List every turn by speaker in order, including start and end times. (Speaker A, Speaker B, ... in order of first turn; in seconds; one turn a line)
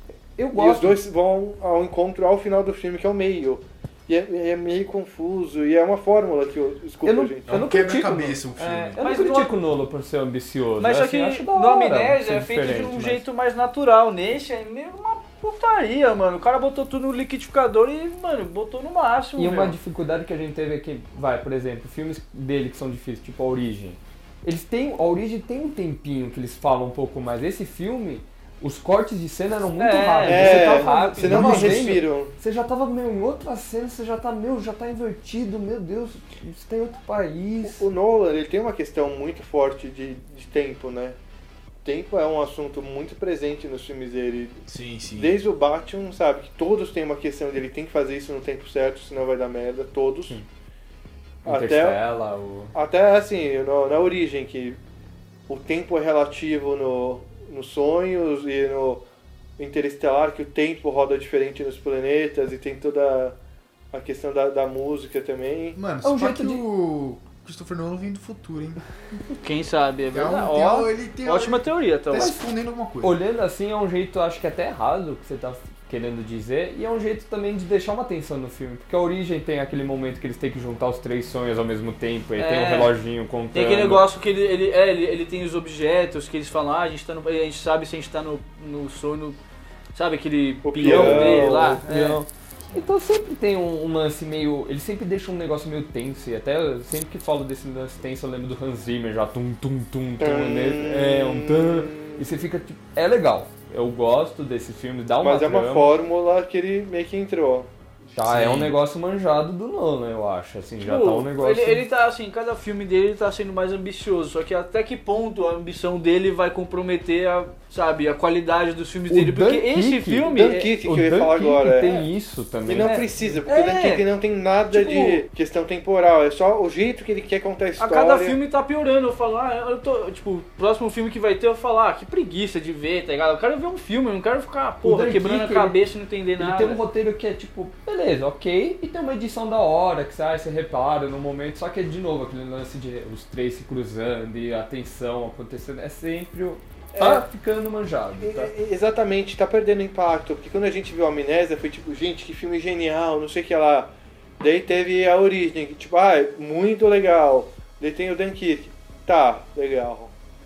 Speaker A: 0.4-1.0
Speaker B: 0.5-7.6
Speaker A: 7.0-13.2
Speaker C: 7.5-9.0
Speaker D: 8.6-9.5
Speaker D: 10.8-19.8
Speaker A: 19.4-37.9
Speaker D: 29.8-31.8
Speaker B: 30.2-32.3
Speaker C: 31.3-31.7
Speaker B: 37.6-41.2
Speaker B: 41.8-44.6
Speaker C: 44.7-45.4
Speaker B: 45.2-50.4
Speaker B: 51.5-52.0
Speaker A: 51.5-52.7
Speaker B: 52.7-54.8
Speaker B: 55.5-59.0
Speaker B: 59.6-63.4
Speaker B: 63.9-65.8
Speaker C: 65.8-68.8
Speaker A: 66.0-66.6
Speaker D: 69.4-72.4
Speaker C: 70.1-73.2
Speaker A: 72.2-72.5
Speaker A: 73.0-84.0
Speaker D: 82.4-83.0
Speaker D: 83.5-89.4
Speaker D: 89.9-92.2
Speaker B: 90.6-91.8
Speaker A: 90.8-105.9
Speaker B: 100.2-102.2
Speaker B: 105.2-107.7
Speaker A: 108.2-111.8
Speaker C: 108.2-108.7
Speaker D: 110.8-120.7
Speaker A: 119.1-123.1
Speaker B: 120.4-121.9
Speaker D: 121.8-122.1
Speaker B: 122.7-128.4
Speaker D: 123.5-124.1
Speaker D: 124.7-125.2
Speaker D: 127.8-136.8
Speaker A: 134.8-135.8
Speaker A: 136.4-148.5
Speaker B: 146.9-147.3
Speaker B: 148.2-160.1